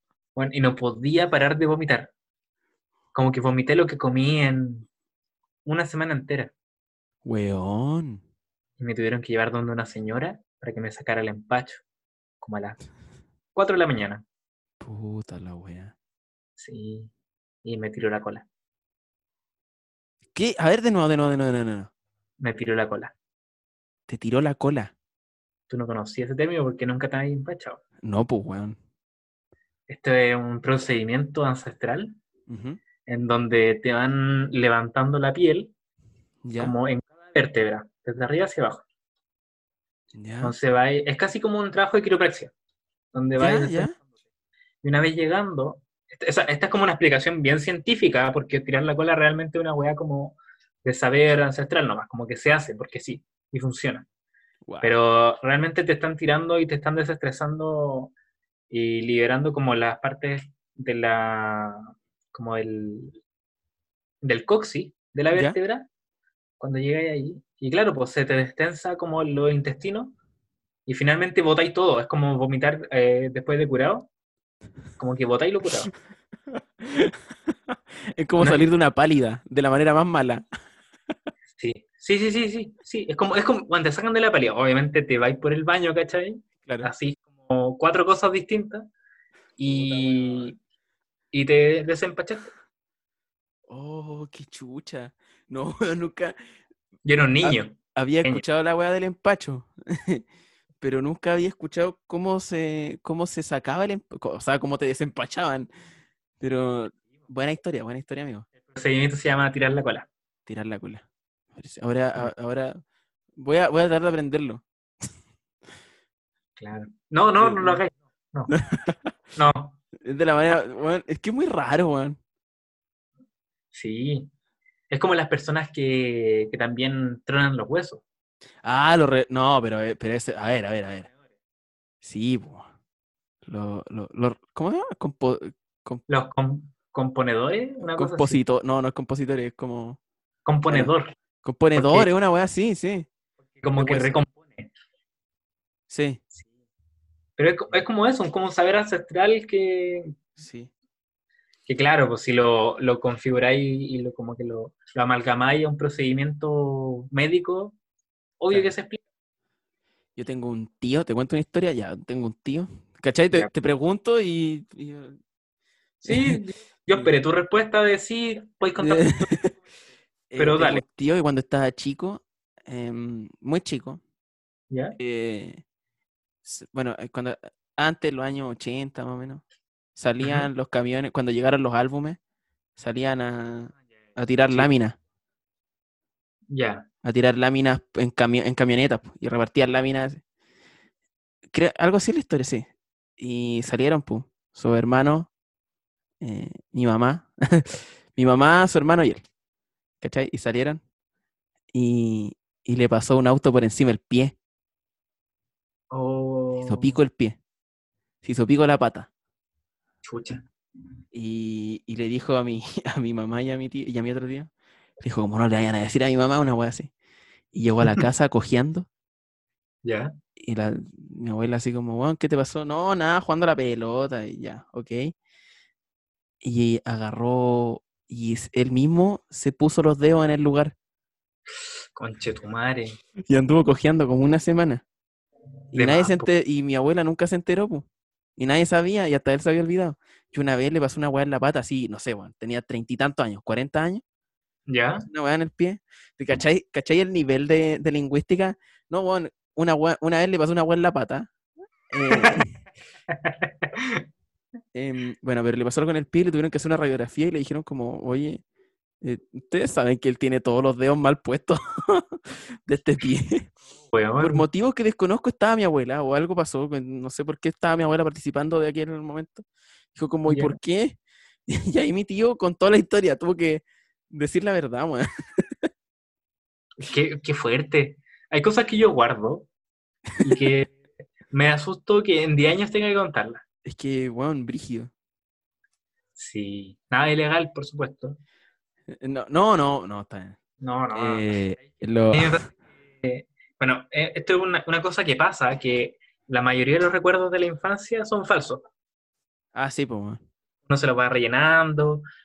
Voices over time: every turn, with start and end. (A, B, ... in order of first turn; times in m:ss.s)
0:00.4-0:02.1 A
0:03.1-0:04.9 A
0:05.6-0:06.5 A
0:07.2-0:08.2 B
0:08.8-0:11.8 A
0:12.4-0:12.8 A
0:13.5-0:14.2 A
0:14.8-0:15.9 B
0:16.6-0:17.1 A
0:17.6-0:18.4 A
0:20.3-0:21.9 B
0:22.4-0:23.1 A
0:24.1-0:24.9 B
0:25.7-0:27.8 A
0:28.0-0:28.8 B
0:29.9-0:32.2 A
0:32.5-0:32.8 B
0:33.0-0:35.7 A
0:36.4-0:36.7 B
0:36.6-0:38.8 A
0:40.1-0:40.5 B
0:40.4-0:42.5 A
0:43.1-0:44.0 A
0:43.4-0:44.0 B
0:44.8-0:54.0 A
0:54.7-0:54.9 B
0:54.8-0:58.1 A
0:58.7-1:03.2 A
1:04.2-1:05.9 A
1:06.6-1:10.1 A
1:10.9-1:14.1 A
1:15.0-1:15.9 A
1:16.5-1:20.4 B
1:18.4-1:18.7 A
1:21.6-1:28.9 A
1:26.6-1:26.9 B
1:29.6-1:30.6 A
1:29.6-1:30.5 B
1:31.3-1:32.5 A
1:33.7-1:36.4 B
1:37.0-1:38.4 A
1:37.4-1:40.2 B
1:40.8-1:45.7 B
1:46.4-1:48.5 B
1:48.7-1:50.1 A
1:50.4-1:51.0 B
1:51.5-1:52.8 B
1:53.4-1:54.6 B
1:56.6-1:58.5 A
1:57.4-1:57.8 B
1:58.5-1:59.1 B
1:59.4-1:59.8 A
2:00.0-2:02.2 B
2:03.7-2:04.3 A
2:04.9-2:08.0 A
2:08.6-2:11.1 B
2:12.0-2:12.6 B
2:13.4-2:16.0 B
2:16.1-2:18.4 A
2:17.8-2:20.0 B
2:20.4-2:21.1 A
2:21.4-2:23.1 B
2:21.7-2:22.1 A
2:23.6-2:24.7 A
2:23.8-2:24.2 B
2:25.9-2:26.2 B
2:27.4-2:30.2 A
2:30.4-2:30.7 B
2:31.7-2:37.8 A
2:38.4-2:39.0 A
2:40.2-2:45.2 B
2:46.0-2:46.4 B
2:46.0-2:49.3 A
2:48.8-2:49.6 B
2:50.3-2:54.0 B
2:50.4-2:50.8 A
2:54.7-2:55.0 A
2:55.0-2:55.6 B
2:56.4-2:59.4 B
3:00.0-3:02.2 B
3:00.2-3:00.5 A
3:02.8-3:05.0 B
3:06.5-3:06.8 A
3:07.0-3:10.2 B
3:11.5-3:15.3 B
3:16.2-3:19.2 B
3:20.0-3:20.8 B
3:21.7-3:24.4 B
3:25.9-3:27.0 A
3:26.6-3:27.4 B
3:28.2-3:29.1 B
3:30.0-3:30.4 A
3:31.1-3:36.9 B
3:37.5-3:38.9 B
3:39.8-3:40.1 A
3:40.4-3:45.1 B
3:46.4-3:50.7 B
3:51.9-3:53.0 A
3:53.3-3:54.8 B
3:55.7-4:04.0 B
3:55.7-3:56.3 A
4:04.7-4:05.0 A
4:05.0-4:11.3 B
4:11.9-4:12.6 B
4:12.1-4:12.4 A
4:13.1-4:14.0 A
4:14.7-4:18.4 B
4:19.0-4:23.5 B
4:23.9-4:24.5 A
4:24.2-4:35.5 B
4:30.3-4:30.6 A
4:36.8-4:39.5 A
4:40.2-4:40.7 A
4:41.3-4:43.4 A
4:43.6-4:44.9 B
4:46.2-4:48.2 A
4:48.9-4:50.4 B
4:50.6-4:58.6 A
4:50.9-4:52.4 B
4:59.5-5:00.2 B
5:00.7-5:02.0 A